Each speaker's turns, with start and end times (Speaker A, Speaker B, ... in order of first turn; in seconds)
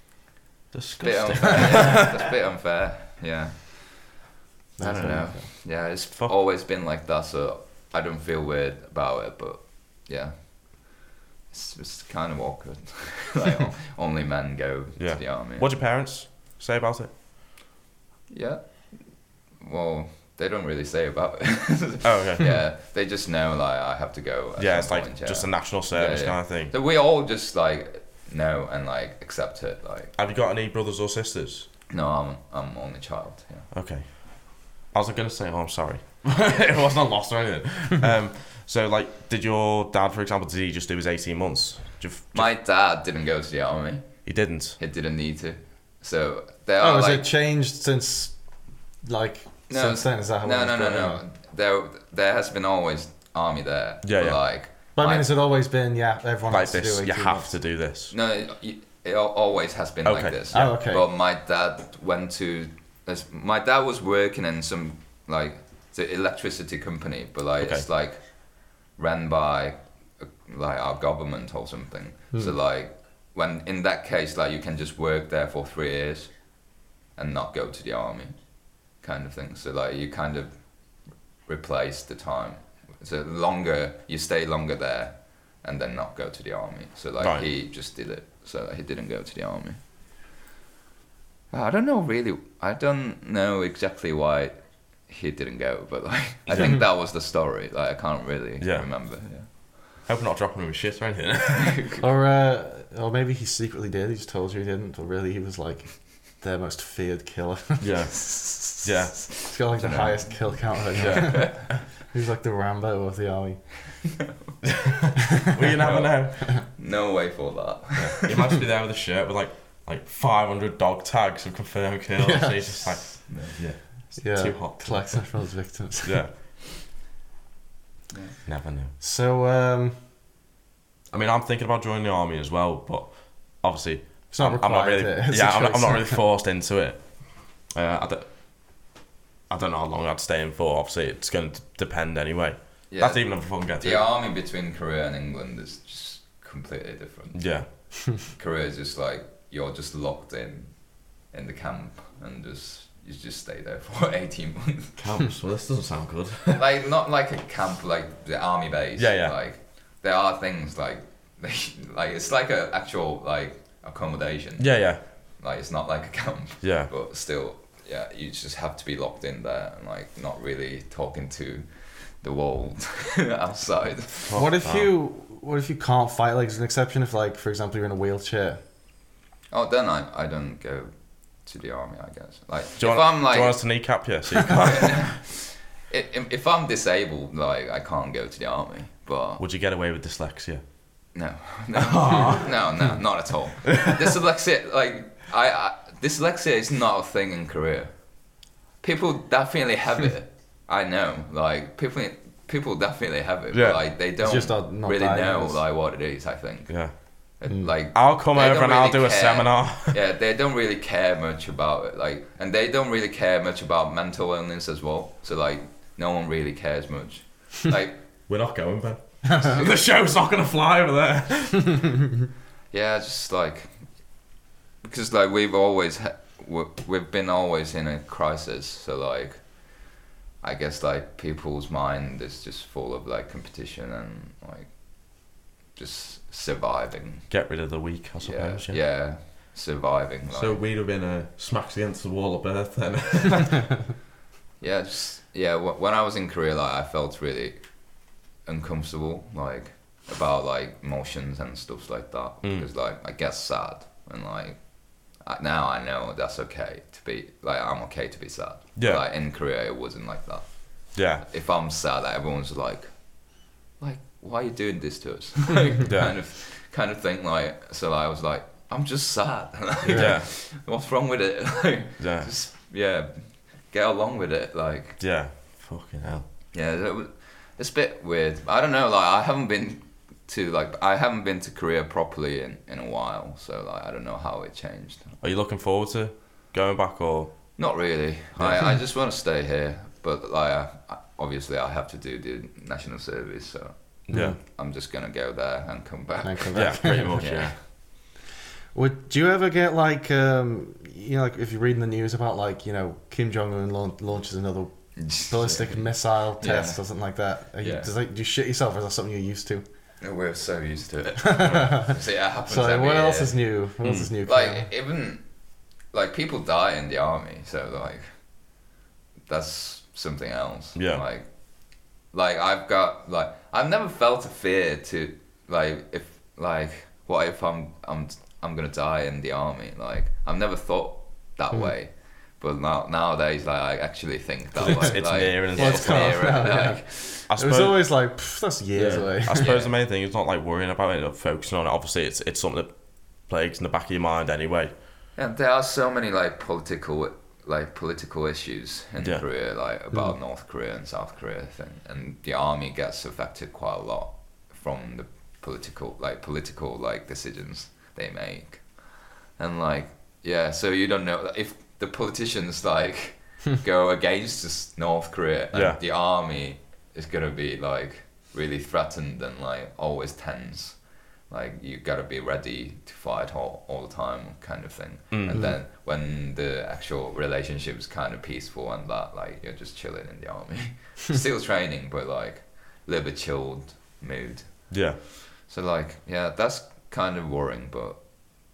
Speaker A: 0.7-2.2, 15.0-17.1, 22.0-22.6, 24.6-26.7, 30.2-31.7, 33.7-42.5, 44.2-44.8, 54.0-54.4, 56.5-58.1, 60.0-60.4, 67.6-67.9, 87.2-87.5, 96.5-96.8, 98.6-98.9, 100.0-101.8, 107.8-109.3, 111.0-111.8, 114.7-116.4, 118.0-125.2, 126.0-126.3, 128.5-128.9, 131.1-138.3, 139.5-144.0, 147.3-147.7, 155.0-156.7, 159.0-159.4, 164.6-165.0, 166.6-166.9, 174.3-174.9, 182.8-185.1, 189.4-190.6, 191.9-192.5, 203.5-203.8, 207.9-210.0, 218.3-221.9, 237.3-238.8, 240.3-243.8, 252.4-252.7, 258.8-259.0, 260.9-261.2, 265.9-266.1, 269.9-270.3, 272.0-272.3, 275.0-276.2, 285.2-287.4, 288.4-288.6, 294.1-294.4, 296.5-297.6, 313.8-314.1, 320.8-321.0, 334.6-336.4, 337.3-337.9, 338.8-344.7, 349.0-349.2, 365.5-365.8, 375.1-375.5, 384.7-385.0
Speaker B: 1.0-4.2, 4.8-11.0, 11.5-15.8, 18.3-30.1, 31.9-33.7, 42.3-44.1, 44.8-47.3, 49.7-55.3, 58.1-68.2, 68.9-76.4, 77.2-78.4, 78.9-80.6, 81.5-89.8, 91.5-94.6, 95.1-99.5, 101.6-102.0, 108.1-111.5, 115.8-118.5, 123.2-123.6, 128.1-128.4, 142.9-147.4, 148.3-155.0, 156.5-164.8, 165.4-174.5, 179.5-189.4, 191.1-198.0, 198.8-218.0, 222.7-223.9, 224.8-229.6, 230.4-237.3, 238.2-240.7, 244.6-247.6, 248.4-275.0, 276.5-285.1, 287.6-297.6, 305.0-306.8, 307.6-307.9, 310.0-313.4, 314.2-315.2, 315.9-318.2, 319.3-321.3, 322.1-337.3, 339.4-339.8, 345.2-388.0
Speaker C: 4.8-5.5, 46.8-48.4, 49.0-51.2, 55.0-57.5, 60.5-61.1, 102.0-108.0, 109.5-113.9, 122.2-122.8, 124.2-126.2, 129.0-130.0, 134.3-136.2, 174.3-178.6, 204.2-205.6, 207.5-207.7, 269.9-270.1, 294.1-294.4, 296.2-297.2, 298.7-309.6, 311.2-311.9, 312.5-314.7, 335.5-339.5, 375.3-375.6